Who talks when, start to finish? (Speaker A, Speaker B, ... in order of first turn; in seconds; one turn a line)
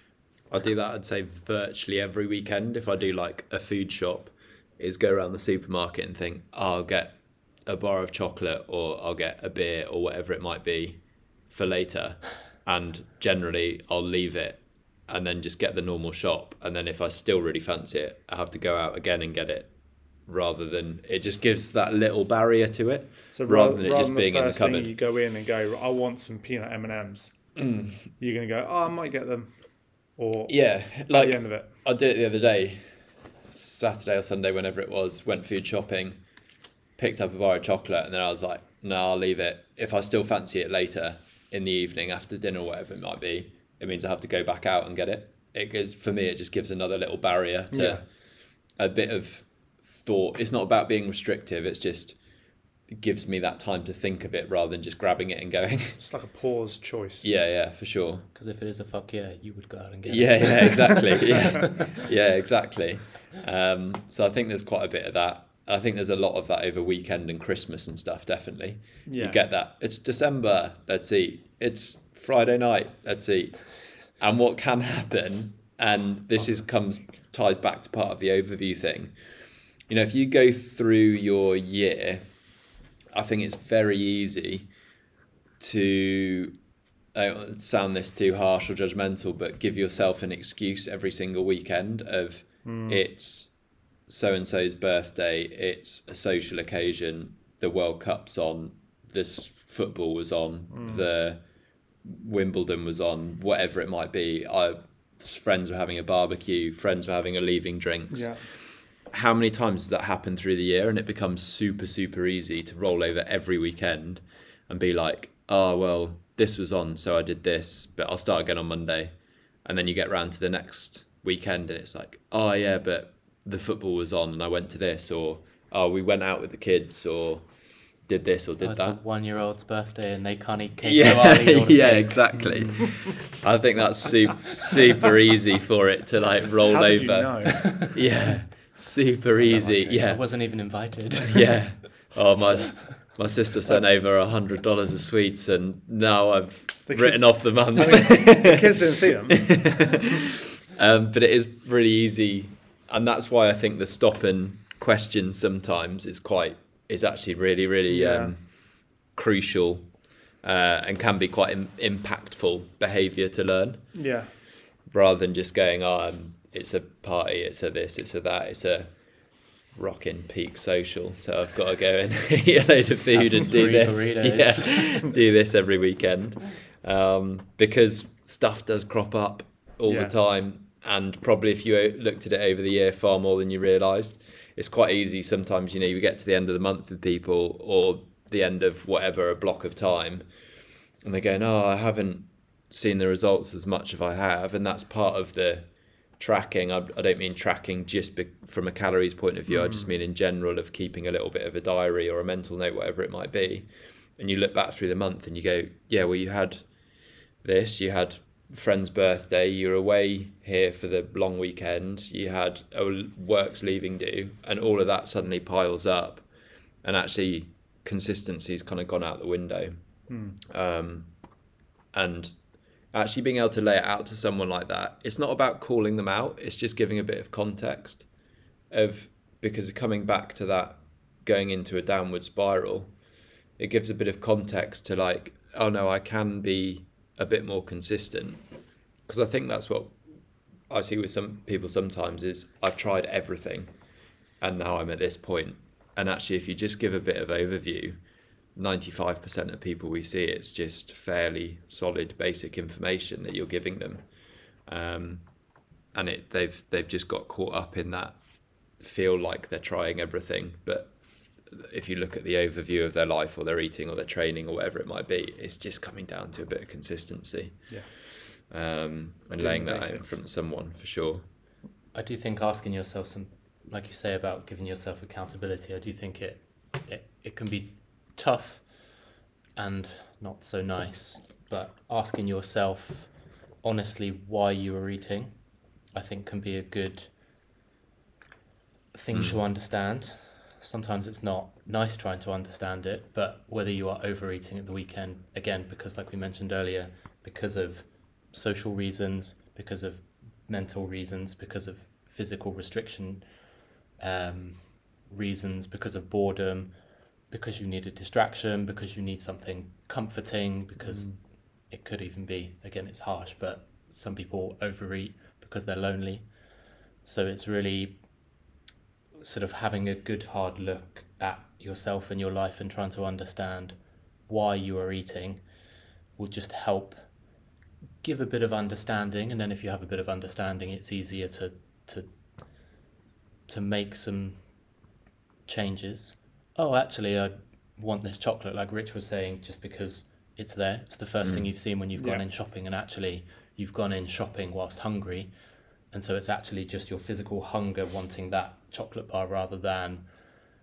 Speaker A: 0.5-19.7
Speaker A: 20.2-24.9
Speaker B: 23.3-27.3
Speaker A: 27.6-28.1
Speaker B: 28.2-29.5
Speaker B: 30.1-31.8
Speaker A: 30.5-36.2
Speaker A: 37.0-48.0
Speaker B: 47.7-48.0
Speaker A: 48.8-52.2
Speaker A: 52.9-56.0
Speaker B: 56.0-57.3
Speaker A: 57.2-58.3
Speaker C: 58.3-61.9
Speaker A: 60.1-79.2
Speaker B: 69.0-69.4
Speaker A: 79.9-82.2
Speaker A: 83.1-84.7
Speaker A: 85.6-86.6
Speaker A: 87.1-93.5
Speaker B: 92.6-93.0
Speaker A: 94.1-101.4
Speaker B: 100.7-101.1
Speaker A: 102.0-127.5
Speaker B: 108.1-108.4
Speaker A: 128.0-129.0
Speaker C: 128.6-132.7
Speaker A: 130.8-140.5
Speaker B: 132.4-132.7
Speaker B: 136.7-137.8
Speaker B: 139.5-140.0
Speaker C: 139.9-141.6
Speaker A: 141.3-158.6
Speaker B: 146.9-150.0
Speaker B: 157.9-158.3
Speaker A: 159.1-163.9
Speaker B: 163.9-164.3
Speaker A: 164.9-168.9
Speaker A: 169.7-190.2
Speaker C: 173.1-175.1
Speaker B: 179.8-180.1
Speaker A: 191.0-206.7
Speaker B: 199.5-199.9
Speaker A: 207.4-216.2
Speaker A: 216.8-219.8
Speaker B: 220.1-220.4
Speaker A: 220.5-221.1
Speaker A: 221.9-222.3
Speaker A: 222.9-228.1
Speaker A: 228.7-232.9
Speaker A: 233.6-238.4
Speaker A: 239.1-240.0
Speaker A: 240.7-243.7
Speaker A: 244.4-248.0
Speaker A: 248.6-254.1
Speaker A: 254.6-255.2
Speaker A: 255.9-258.2
Speaker A: 258.8-260.9
Speaker A: 261.4-271.2
Speaker B: 269.4-270.2
Speaker C: 271.9-287.1
Speaker C: 288.9-303.4
Speaker C: 304.0-316.4
Speaker C: 317.0-318.0
Speaker C: 319.1-325.4
Speaker C: 326.1-327.0
Speaker C: 328.0-332.1
Speaker C: 333.5-334.6
Speaker C: 335.4-345.3
Speaker A: 341.2-341.5
Speaker B: 341.9-342.2
Speaker C: 345.9-350.1